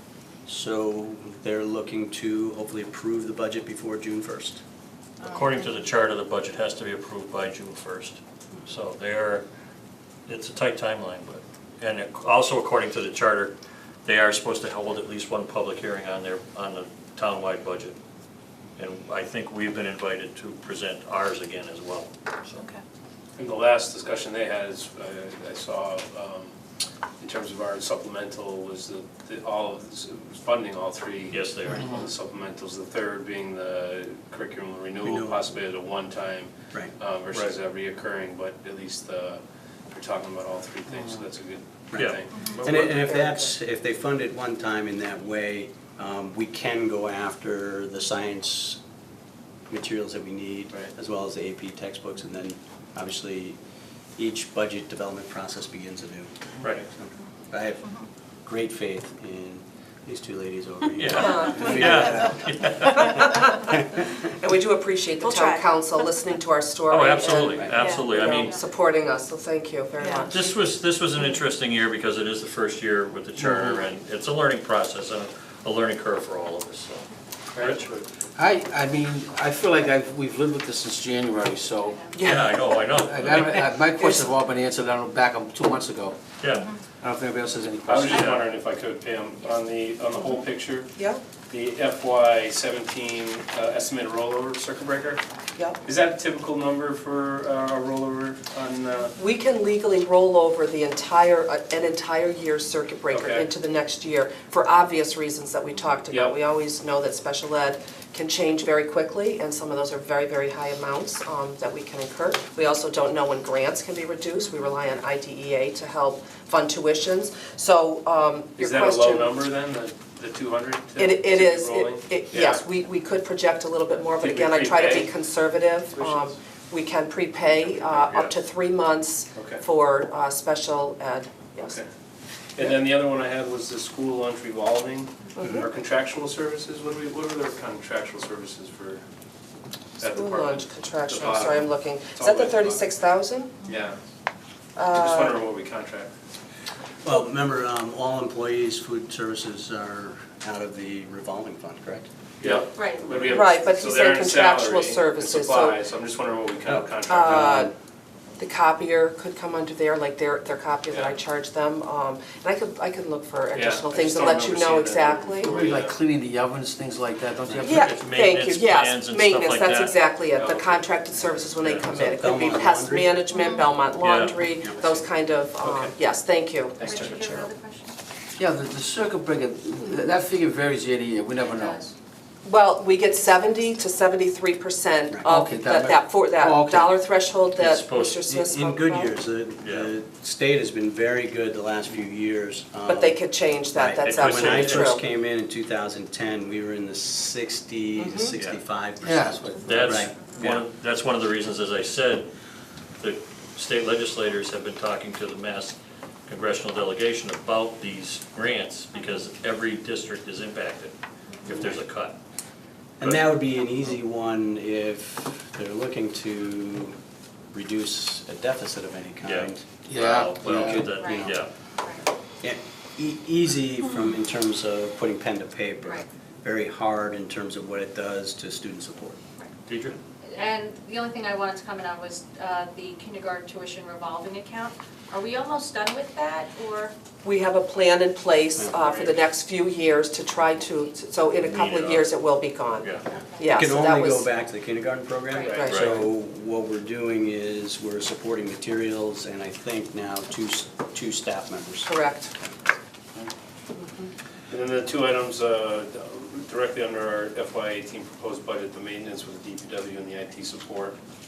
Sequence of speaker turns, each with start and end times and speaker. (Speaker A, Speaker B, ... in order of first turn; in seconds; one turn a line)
Speaker A: 0.5-4.6
Speaker B: 5.2-9.4
Speaker B: 10.3-18.0
Speaker B: 18.8-22.7
Speaker C: 23.4-26.5
Speaker C: 27.2-39.4
Speaker B: 31.3-32.0
Speaker A: 35.0-35.5
Speaker C: 39.9-42.9
Speaker A: 41.9-48.8
Speaker B: 41.9-42.9
Speaker D: 42.5-43.5
Speaker A: 49.7-53.6
Speaker A: 54.2-62.5
Speaker B: 61.0-63.3
Speaker D: 61.2-62.1
Speaker E: 61.7-62.3
Speaker D: 63.1-63.8
Speaker D: 64.4-70.4
Speaker F: 65.2-65.7
Speaker B: 66.9-68.6
Speaker F: 67.8-68.6
Speaker B: 70.3-77.9
Speaker E: 73.4-73.8
Speaker C: 77.5-78.0
Speaker E: 78.3-82.0
Speaker D: 82.1-82.5
Speaker B: 82.2-83.7
Speaker E: 83.0-86.2
Speaker B: 86.4-86.7
Speaker E: 87.0-88.4
Speaker C: 87.9-90.9
Speaker B: 88.1-88.4
Speaker D: 91.0-91.2
Speaker C: 91.5-95.2
Speaker C: 95.8-99.2
Speaker D: 99.2-119.3
Speaker C: 103.1-103.5
Speaker C: 106.1-106.4
Speaker C: 118.6-122.6
Speaker D: 121.0-131.8
Speaker C: 124.0-125.1
Speaker C: 126.0-126.3
Speaker B: 128.0-128.3
Speaker C: 129.4-129.6
Speaker C: 131.6-131.9
Speaker C: 132.6-139.0
Speaker D: 135.4-135.6
Speaker C: 140.0-142.9
Speaker D: 140.1-143.7
Speaker C: 143.6-144.0
Speaker D: 144.8-145.4
Speaker C: 144.9-146.1
Speaker A: 147.0-152.6
Speaker C: 152.4-157.6
Speaker F: 152.7-153.1
Speaker D: 153.2-155.8
Speaker A: 156.7-157.7
Speaker D: 157.0-157.7
Speaker D: 158.4-165.6
Speaker C: 160.9-161.2
Speaker C: 163.5-166.0
Speaker E: 165.5-168.0
Speaker D: 167.6-177.5
Speaker B: 167.7-170.0
Speaker C: 170.3-171.3
Speaker B: 171.5-171.9
Speaker A: 171.9-173.2
Speaker F: 173.3-173.8
Speaker B: 174.0-174.4
Speaker C: 175.6-175.9
Speaker C: 176.8-177.2
Speaker F: 176.8-178.0
Speaker E: 178.4-181.8
Speaker F: 181.4-181.9
Speaker D: 182.4-189.2
Speaker E: 185.3-186.9
Speaker B: 187.6-188.2
Speaker A: 188.2-193.2
Speaker B: 189.6-189.9
Speaker D: 192.9-195.0
Speaker A: 193.7-200.7
Speaker B: 194.1-194.9
Speaker D: 198.0-198.3
Speaker E: 199.0-199.9
Speaker B: 199.6-202.3
Speaker B: 203.0-205.8
Speaker B: 206.3-212.2
Speaker A: 213.0-217.0
Speaker A: 217.5-219.8
Speaker B: 219.2-221.5
Speaker E: 219.9-220.9
Speaker A: 220.4-221.4
Speaker F: 220.9-222.0
Speaker A: 222.4-229.2
Speaker B: 229.7-230.0
Speaker F: 230.3-236.9
Speaker D: 237.2-244.3
Speaker C: 238.8-239.2
Speaker F: 240.5-240.9
Speaker B: 241.4-242.2
Speaker B: 242.8-243.1
Speaker F: 243.1-243.5
Speaker A: 243.5-252.5
Speaker F: 245.3-245.6
Speaker C: 245.4-245.7
Speaker D: 245.6-245.9
Speaker B: 245.7-246.0
Speaker D: 251.9-252.3
Speaker D: 253.8-254.1
Speaker C: 254.5-261.0